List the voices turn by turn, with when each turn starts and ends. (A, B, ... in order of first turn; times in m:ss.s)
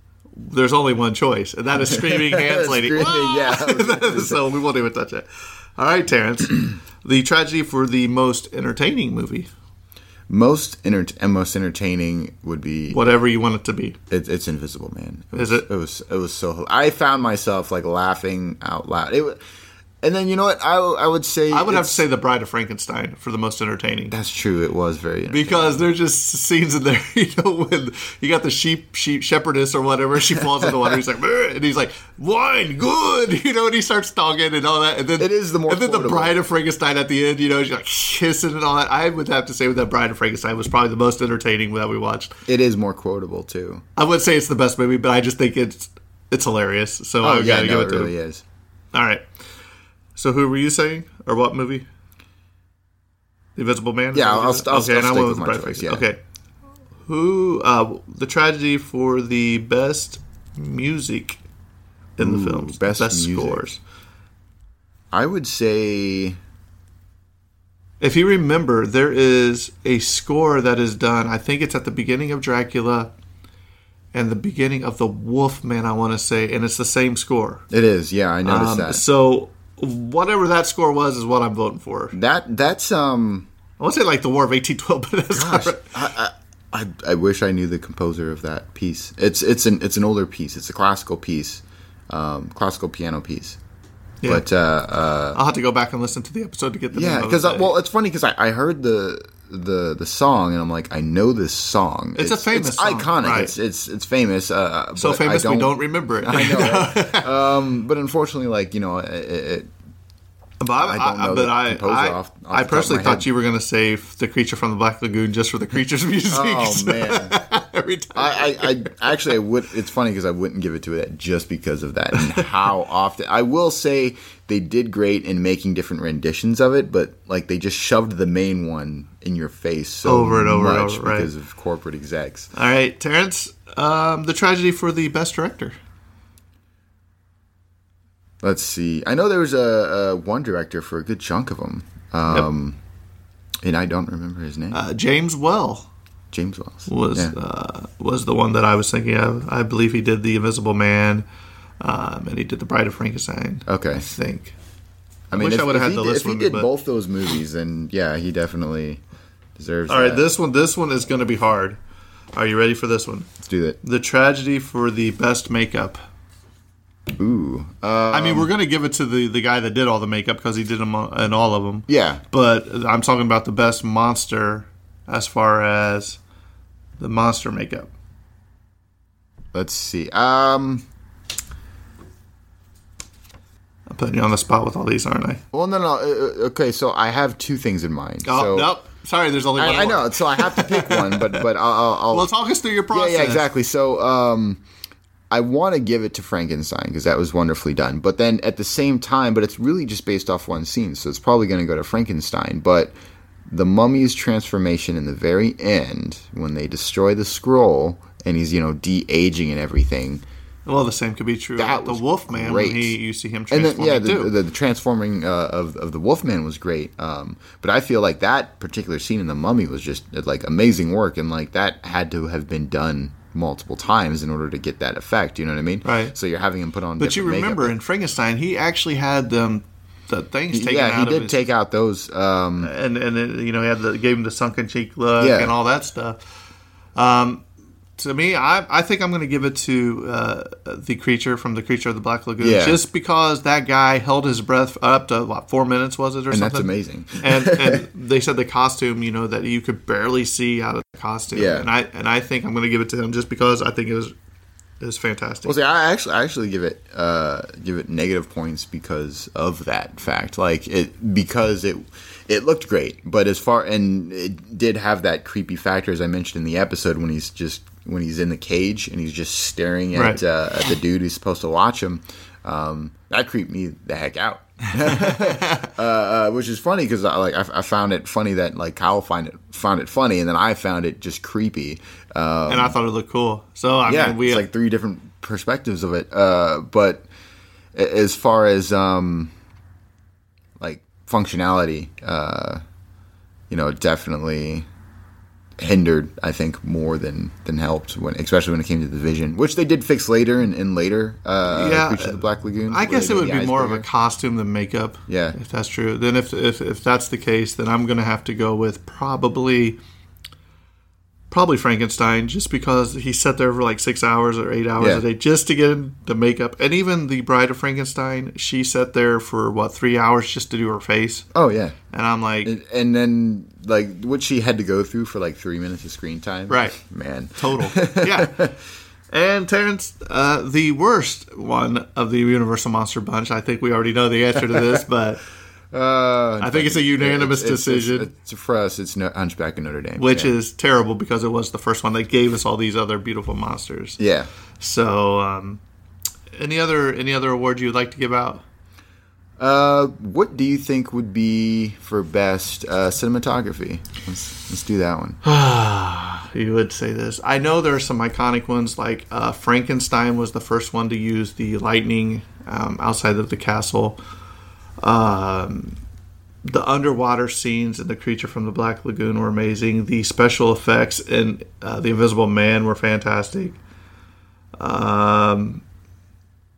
0:00.4-0:09.5 A
0:01.9-0:04.4 B
0:10.3-0:13.0 B
0:12.9-0:14.0 A
0:14.1-0:19.4 B
0:15.3-0:15.7 A
0:20.0-0:22.0 B
0:21.5-0:24.2 A
0:24.1-0:25.8 B
0:25.3-0:42.3 A
0:35.2-0:36.4 B
0:42.5-0:43.8 B
0:44.0-0:48.1 A
0:47.2-0:48.4 B
0:48.9-0:49.3 A
0:50.2-0:51.9 A
0:53.6-0:56.2 A
0:54.1-0:56.1 B
0:57.1-1:01.4 A
1:02.2-1:03.8 A
1:02.2-1:03.6 B
1:05.1-1:06.4 B
1:08.0-1:13.1 A
1:14.1-1:17.6 A
1:17.7-1:19.0 B
1:18.4-1:22.2 A
1:22.1-1:23.5 B
1:23.8-1:25.9 A
1:25.3-1:33.6 B
1:34.3-1:35.4 B
1:35.3-1:37.7 A
1:36.9-1:49.7 B
1:42.2-1:43.5 A
1:45.0-1:47.3 A
1:50.6-1:59.3 A
1:50.8-1:53.3 B
1:56.3-1:57.4 B
1:58.1-2:12.5 B
2:02.2-2:02.5 A
2:10.0-2:11.3 A
2:12.5-2:15.8 A
2:18.4-2:22.8 B
2:23.6-2:24.8 B
2:24.7-2:25.9 A
2:26.3-2:27.3 B
2:26.9-2:31.3 A
2:31.8-2:34.6 A
2:33.7-2:34.1 B
2:35.3-2:39.0 B
2:35.3-2:36.7 A
2:39.6-2:40.3 B
2:39.9-2:41.8 A
2:42.3-2:43.3 A
2:43.4-2:43.8 B
2:43.8-2:46.0 A
2:47.2-2:48.5 B
2:48.1-2:56.2 A
2:51.9-2:52.2 B
2:57.0-2:57.9 A
2:59.5-3:00.8 B
3:03.9-3:05.4 A
3:05.5-3:08.7 B
3:08.2-3:11.4 A
3:09.6-3:12.3 B
3:12.1-3:13.4 A
3:12.9-3:14.6 B
3:15.3-3:23.0 B
3:23.5-3:30.2 B
3:30.7-3:34.3 A
3:31.6-3:33.0 B
3:33.5-3:47.7 B
3:45.8-3:46.2 A
3:47.0-3:51.4 A
3:50.5-3:52.7 B
3:52.6-3:56.2 A
3:55.2-3:55.5 B
3:57.0-3:57.4 A
3:58.0-4:14.1 A
4:02.4-4:02.8 B
4:06.3-4:07.8 B
4:11.3-4:11.7 B
4:14.8-4:15.6 A
4:15.4-4:42.8 B
4:29.9-4:30.2 A
4:34.9-4:35.7 A
4:42.5-4:44.4 A
4:43.9-4:47.1 B
4:47.7-4:49.3 B
4:50.6-4:52.6 B
4:53.5-4:54.7 B
4:55.6-5:03.9 B
5:01.5-5:09.8 A
5:05.1-5:05.4 B
5:11.3-5:21.3 A
5:21.3-5:21.8 B
5:21.9-5:22.5 A
5:22.4-5:28.6 B
5:26.5-5:26.8 A
5:27.4-5:28.5 A
5:29.1-5:35.2 A
5:35.7-5:40.3 B
5:36.4-5:38.1 A
5:40.0-5:44.0 A
5:44.0-5:44.3 B
5:44.6-5:45.6 A
5:46.3-5:48.4 A
5:49.4-5:55.2 B
5:55.2-6:04.0 A
6:04.8-6:05.8 A
6:06.4-6:13.6 A
6:14.6-6:15.6 A